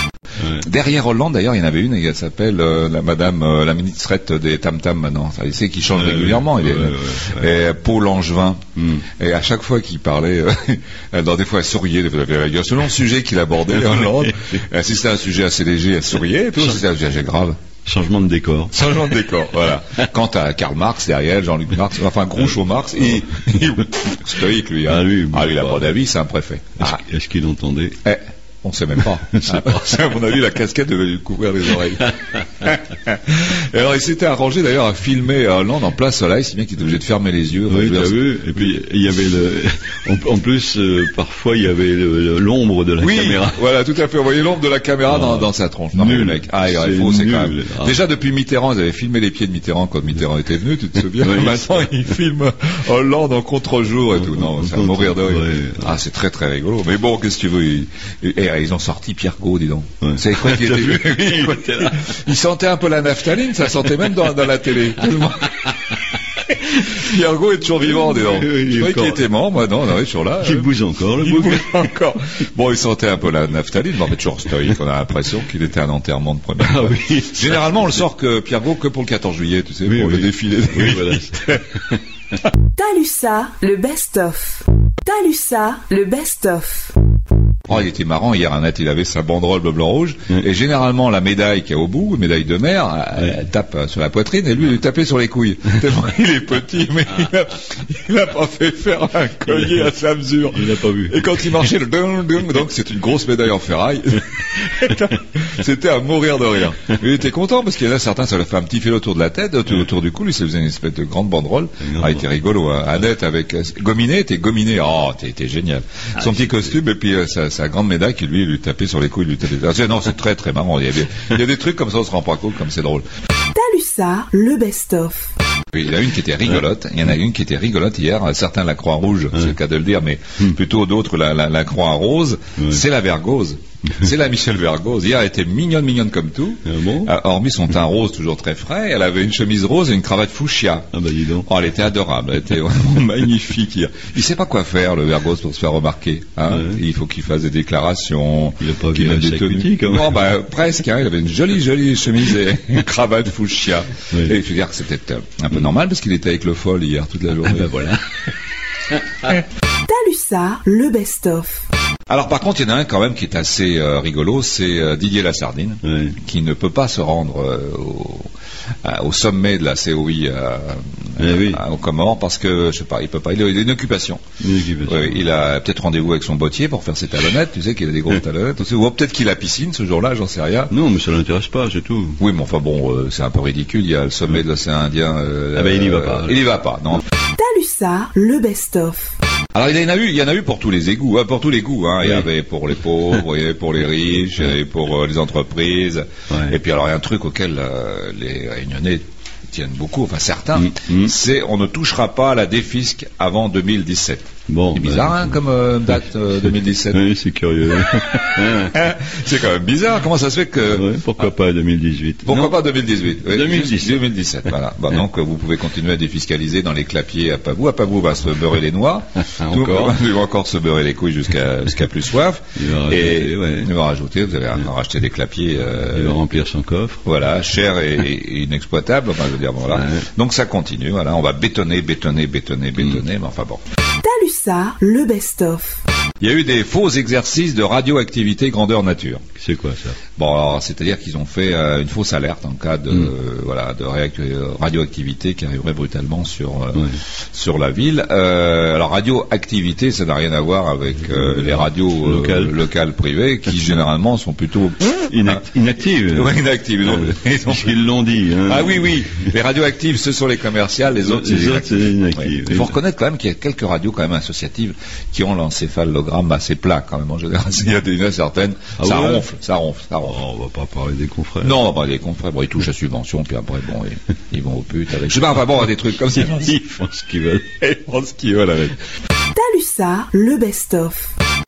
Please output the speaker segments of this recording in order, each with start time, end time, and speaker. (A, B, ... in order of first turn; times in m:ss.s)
0:00.6-0:17.6 A
0:05.9-0:07.5 B
0:13.8-0:14.2 B
0:17.8-0:18.7 B
0:18.7-0:27.0 A
0:24.8-0:25.9 B
0:26.8-0:28.0 B
0:28.0-0:38.7 A
0:29.3-0:29.8 B
0:37.7-0:43.6 B
0:43.0-1:05.7 A
0:45.1-0:48.0 B
0:51.2-0:52.0 B
0:54.2-0:55.9 B
1:00.0-1:02.0 B
1:06.4-1:21.6 A
1:08.3-1:09.3 B
1:10.4-1:11.6 B
1:16.6-1:18.0 B
1:19.8-1:21.6 B
1:22.8-1:26.9 C
1:27.7-2:03.0 A
1:40.5-1:41.2 B
1:51.9-1:52.2 B
2:03.5-2:05.3 C
2:05.7-2:37.7 A
2:16.7-2:17.1 B
2:20.9-2:21.5 B
2:26.5-2:26.8 B
2:28.6-2:30.2 B
2:37.4-2:38.2 B
2:38.9-2:39.4 B
2:39.8-2:41.6 C
2:42.1-2:48.3 A
2:45.8-2:46.2 B
2:48.8-2:54.2 A
2:51.2-2:51.6 B
2:54.4-2:55.2 B
2:54.8-3:00.7 A
3:00.7-3:02.2 B
3:02.2-3:07.0 A
3:05.6-3:06.5 B
3:07.3-3:09.1 C
3:09.5-3:27.0 A
3:16.3-3:16.6 B
3:20.6-3:21.1 B
3:24.5-3:25.4 B
3:26.8-3:28.8 B
3:28.6-3:31.3 A
3:30.7-3:34.1 B
3:32.2-3:46.2 A
3:39.4-3:40.0 B
3:42.6-3:43.7 B
3:45.8-3:47.0 B
3:47.0-3:53.6 A
3:49.7-3:50.1 B
3:54.0-3:55.8 C
3:56.2-3:59.2 A
3:59.4-4:00.0 B
4:00.1-4:15.4 A
4:11.3-4:12.6 B
4:15.1-4:19.3 B
4:16.1-4:30.2 A
4:20.9-4:22.7 B
4:28.8-4:29.3 B
4:30.1-4:31.6 B
4:31.4-4:36.6 A
4:36.1-4:37.5 B
4:37.5-4:38.7 A
4:39.3-4:41.1 C